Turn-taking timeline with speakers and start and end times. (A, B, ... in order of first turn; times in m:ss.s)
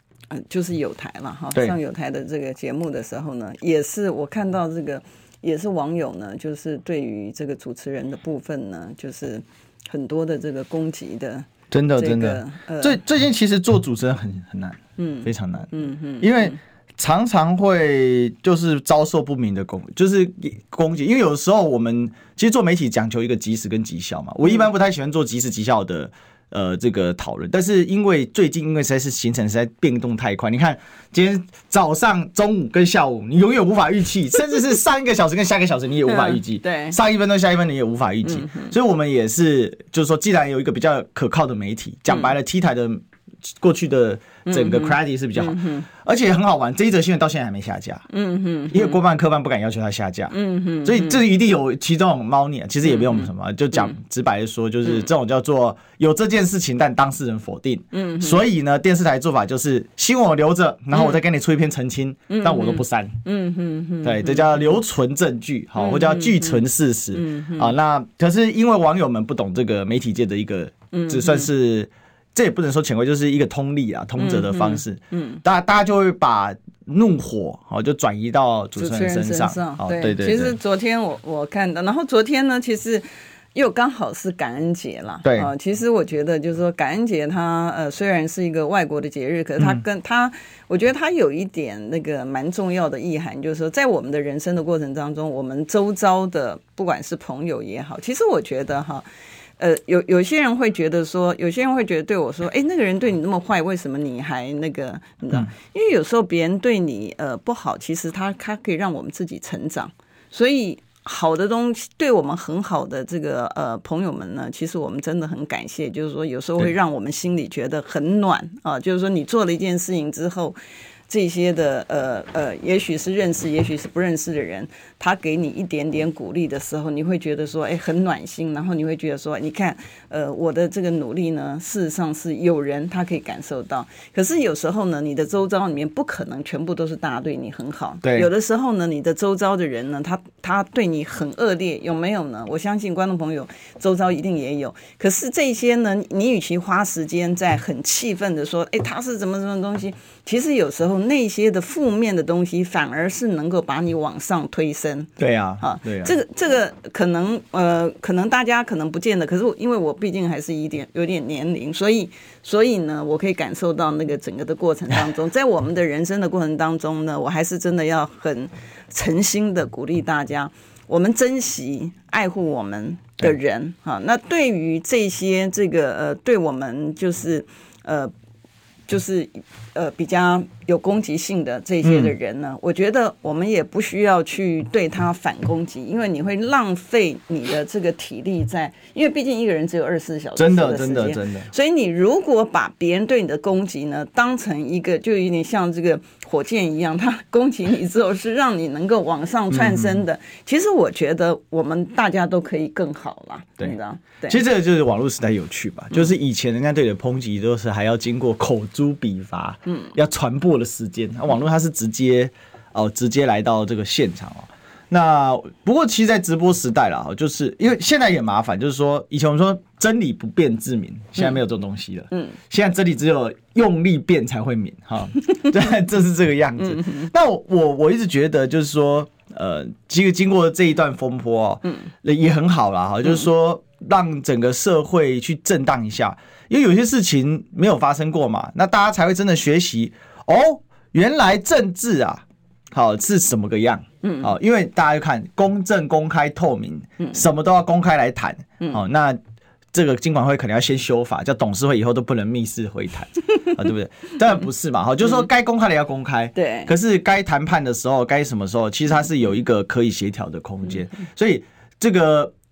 0:00.3-0:13.0 A
0:11.7-0:48.0 B
0:15.0-0:16.6 A
0:36.0-0:37.0 A
0:44.5-0:45.8 A
0:48.1-0:49.0 A
0:48.7-1:03.2 B
0:50.3-0:51.2 A
0:52.9-0:53.2 A
0:57.9-0:58.4 A
1:00.9-1:01.2 A
1:02.3-1:04.8 A
1:04.0-1:20.6 B
1:05.8-1:07.7 A
1:10.9-1:11.5 A
1:14.2-1:15.4 A
1:18.8-1:39.0 A
1:25.2-1:25.5 B
1:39.6-2:00.6 A
2:01.1-2:58.1 A
2:18.0-2:18.3 B
2:35.2-2:36.1 B
2:58.9-3:24.4 A
3:01.8-3:02.1 B
3:10.4-3:11.5 B
3:19.5-3:20.0 B
3:24.3-4:09.2 B
3:46.8-3:47.1 A
4:04.0-4:04.3 A
4:09.7-4:22.3 B
4:16.3-4:16.7 A